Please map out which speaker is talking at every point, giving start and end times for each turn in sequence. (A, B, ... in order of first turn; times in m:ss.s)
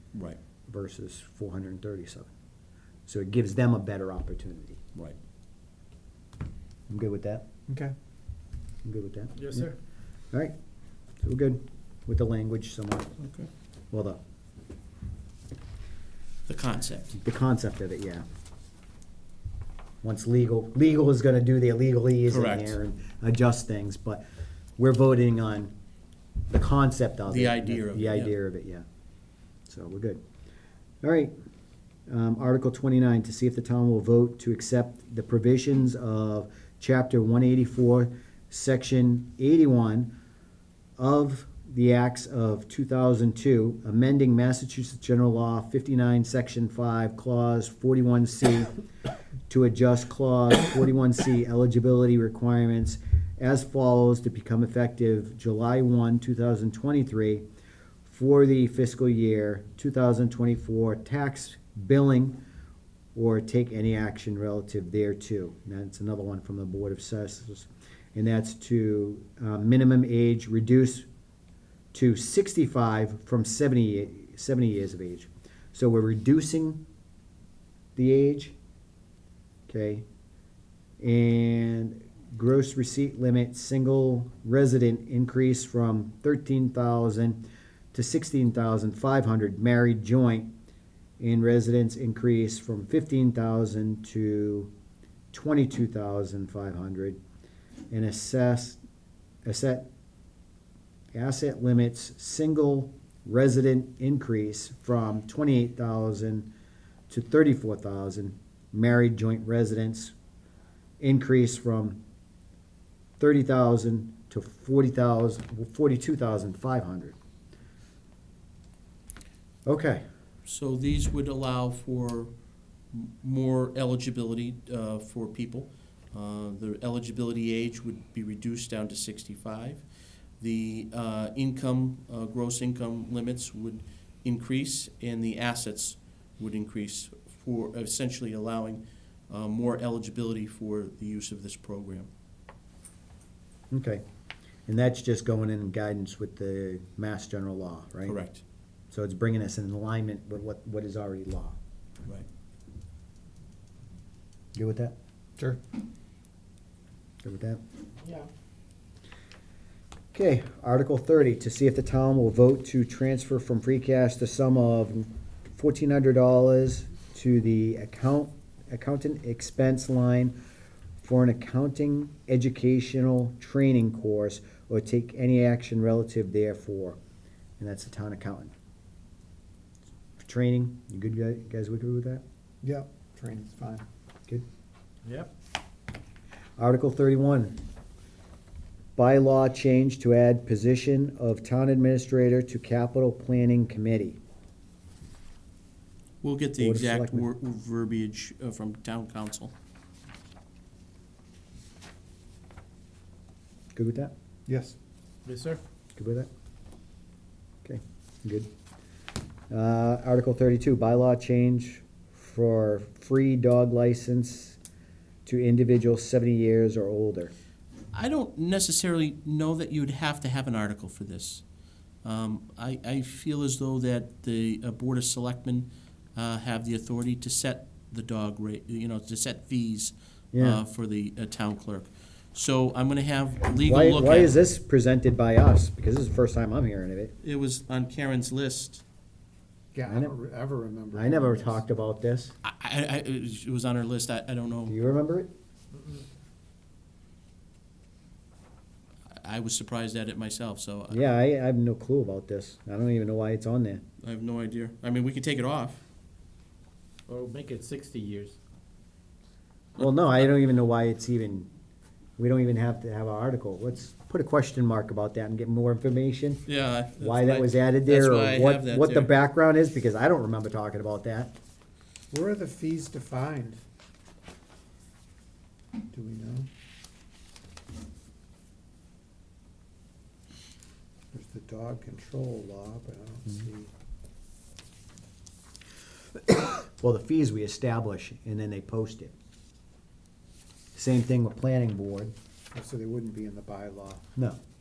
0:00.1-0:00.4 A
0:00.7-0:02.3 B
0:03.1-0:04.8 B
0:06.9-0:07.5 B
0:07.7-0:07.9 C
0:08.8-0:09.7 B
0:09.4-0:09.8 D
0:11.2-0:13.1 B
0:13.2-0:13.5 A
0:13.9-0:14.2 B
0:16.5-0:17.1 A
0:17.1-0:18.2 B
0:20.0-0:24.2 B
0:22.3-0:22.8 A
0:24.8-0:25.7 B
0:26.5-0:28.8 B
0:27.3-0:28.3 A
0:29.7-0:30.2 B
0:31.0-0:31.3 B
0:32.1-0:40.1 B
0:41.0-0:48.7 B
0:49.5-0:57.4 B
0:58.0-1:02.4 B
1:03.2-1:11.1 B
1:11.9-1:16.8 B
1:18.0-1:18.6 B
1:19.7-1:20.0 B
1:21.0-1:30.5 B
1:31.2-1:34.7 B
1:35.3-1:37.2 B
1:37.9-1:38.8 B
1:39.4-1:39.9 B
1:41.1-1:46.5 B
1:47.1-1:50.1 B
1:51.0-1:52.0 B
1:53.2-1:57.2 B
1:59.7-2:00.0 B
2:00.5-2:02.3 A
2:02.9-2:09.8 A
2:10.4-2:22.1 A
2:23.7-2:24.0 B
2:24.7-2:28.2 B
2:28.1-2:28.4 A
2:28.9-2:31.6 B
2:34.6-2:35.0 B
2:37.2-2:37.6 B
2:38.0-2:38.3 D
2:40.1-2:50.4 B
2:51.0-2:57.0 B
2:57.6-2:58.5 B
3:00.2-3:02.2 B
3:02.6-3:03.8 C
3:05.1-3:05.3 D
3:06.6-3:07.6 B
3:09.0-3:14.2 B
3:16.2-3:19.5 A
3:16.6-3:17.3 B
3:23.8-3:24.1 B
3:24.5-3:24.8 C
3:25.3-3:25.6 D
3:26.0-3:26.3 B
3:27.6-3:28.5 B
3:29.5-3:34.6 B
3:35.2-3:37.3 B
3:37.9-3:41.4 A
3:42.0-3:54.4 A
3:50.3-3:50.6 B
3:53.5-3:57.2 B
3:57.2-3:58.8 A
3:59.7-4:01.6 C
3:59.9-4:00.1 B
4:01.0-4:02.4 B
4:02.4-4:04.8 A
4:04.7-4:05.3 B
4:09.2-4:11.0 A
4:10.9-4:13.8 B
4:14.0-4:15.8 A
4:17.1-4:18.4 D
4:19.8-4:21.5 B
4:22.2-4:26.4 B
4:26.5-4:29.1 A
4:27.0-4:31.4 B
4:32.1-4:33.6 C
4:35.9-4:36.5 C
4:41.1-4:43.7 C
4:46.6-4:49.1 B
4:50.8-4:52.1 B
4:52.5-4:54.0 C